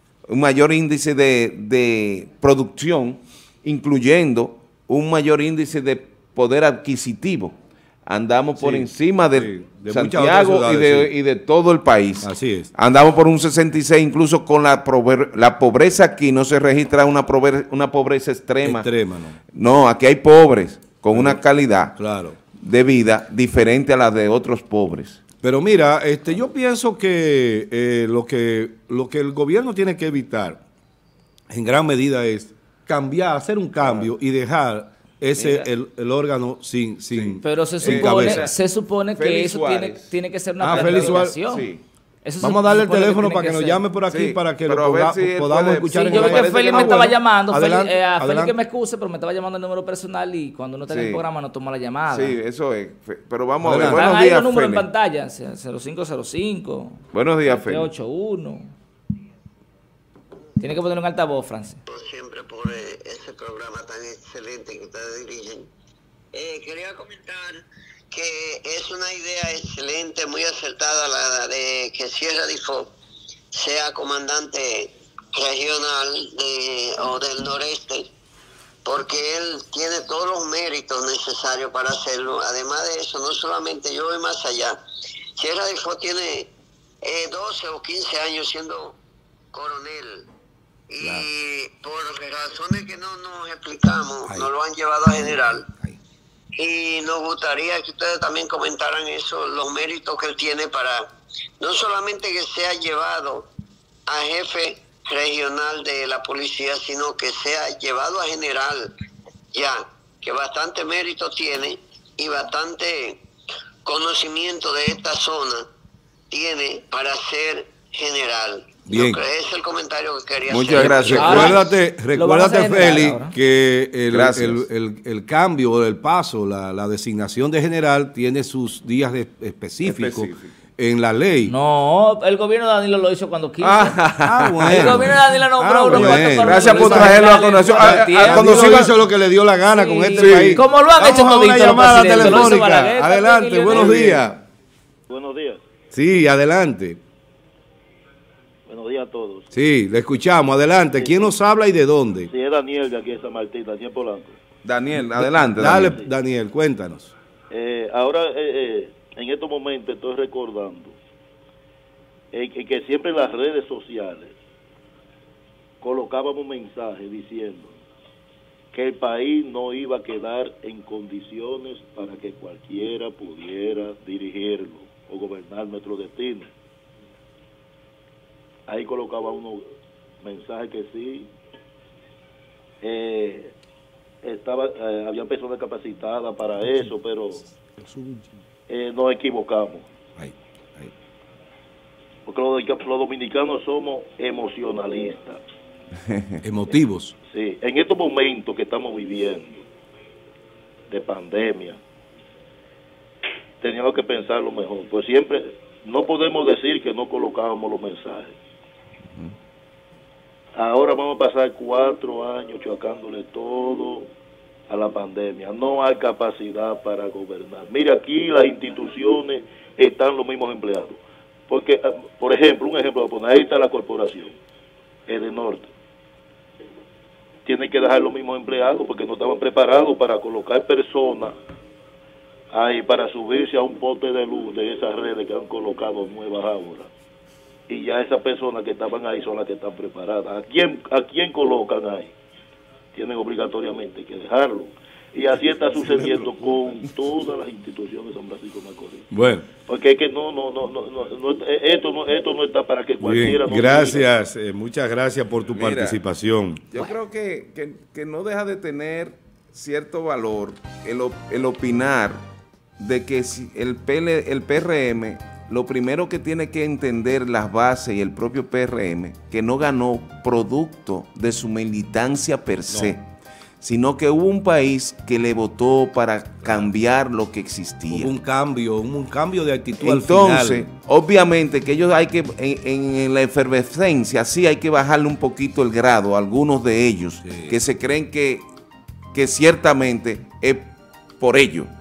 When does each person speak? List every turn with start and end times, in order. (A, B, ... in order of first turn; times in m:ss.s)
0:00.3-0:18.9 A
0:08.6-0:11.1 B
0:12.2-0:12.7 B
0:18.6-0:19.4 B
0:19.5-0:22.0 A
0:21.1-0:21.4 B
0:22.0-0:22.4 B
0:22.5-0:25.2 A
0:25.4-0:30.6 B
0:31.5-0:38.5 B
0:35.4-0:35.7 A
0:37.1-0:38.5 A
0:37.4-0:41.7 C
0:39.1-0:40.1 A
0:40.6-0:41.4 B
0:40.7-0:41.8 A
0:42.2-0:43.8 C
0:42.4-0:48.5 B
0:44.1-0:47.2 A
0:45.9-0:52.4 C
0:50.9-0:51.2 A
0:52.1-0:54.8 A
0:53.6-0:54.0 B
0:53.8-0:58.7 C
0:57.1-0:57.9 A
1:00.6-1:01.8 C
1:01.9-1:05.7 D
1:06.3-1:12.9 D
1:13.5-1:18.1 D
1:18.8-1:24.8 D
1:25.4-1:26.5 D
1:27.0-1:29.0 D
1:29.5-1:30.3 D
1:30.9-1:35.7 D
1:35.7-1:36.0 B
1:36.6-1:41.1 D
1:41.6-1:43.5 D
1:44.1-1:48.9 D
1:49.5-1:53.2 D
1:53.8-1:55.7 D
1:56.3-2:01.5 D
1:58.8-1:59.2 B
2:00.5-2:01.6 A
2:00.7-2:03.3 C
2:01.0-2:11.5 B
2:04.1-2:04.6 A
2:09.8-2:10.5 A
2:11.4-2:14.0 C
2:13.6-2:15.2 A
2:14.2-2:24.4 B
2:14.6-2:18.9 C
2:15.9-2:18.9 A
2:19.7-2:24.2 C
2:20.2-2:20.6 A
2:23.7-2:24.3 E
2:25.1-2:25.6 E
2:25.9-2:27.0 B
2:28.7-2:29.5 E
2:29.5-2:32.3 B
2:31.0-2:31.3 E
2:32.3-2:34.4 E
2:34.6-2:36.0 A
2:35.2-2:37.1 B
2:37.5-2:41.0 E
2:42.3-2:44.4 E
2:45.8-2:47.8 E
2:48.7-2:56.5 E
2:58.7-2:59.7 E
3:00.2-3:01.3 E
3:02.8-3:03.5 E
3:04.2-3:07.4 E
3:07.6-3:08.3 B
3:08.7-3:09.9 E
3:10.2-3:10.9 B
3:12.2-3:15.4 E
3:16.0-3:16.4 A
3:16.4-3:17.2 B
3:17.3-3:19.6 E
3:20.9-3:21.8 E
3:23.6-3:28.4 E
3:30.6-3:34.1 E
3:34.7-3:44.4 E
3:45.1-3:45.7 E
3:47.4-3:51.4 E
3:52.5-3:56.9 E
3:57.7-4:02.1 E
4:02.9-4:09.1 E
4:05.9-4:06.3 B
4:09.1-4:09.5 B
4:09.6-4:14.2 E
4:13.0-4:16.6 B
4:15.5-4:16.0 A
4:16.7-4:22.2 A
4:22.8-4:33.0 A
4:32.7-4:32.9 B
4:33.6-4:38.1 A
4:37.9-4:40.7 B
4:39.8-4:48.4 A
4:47.2-4:47.5 B
4:49.1-4:51.7 A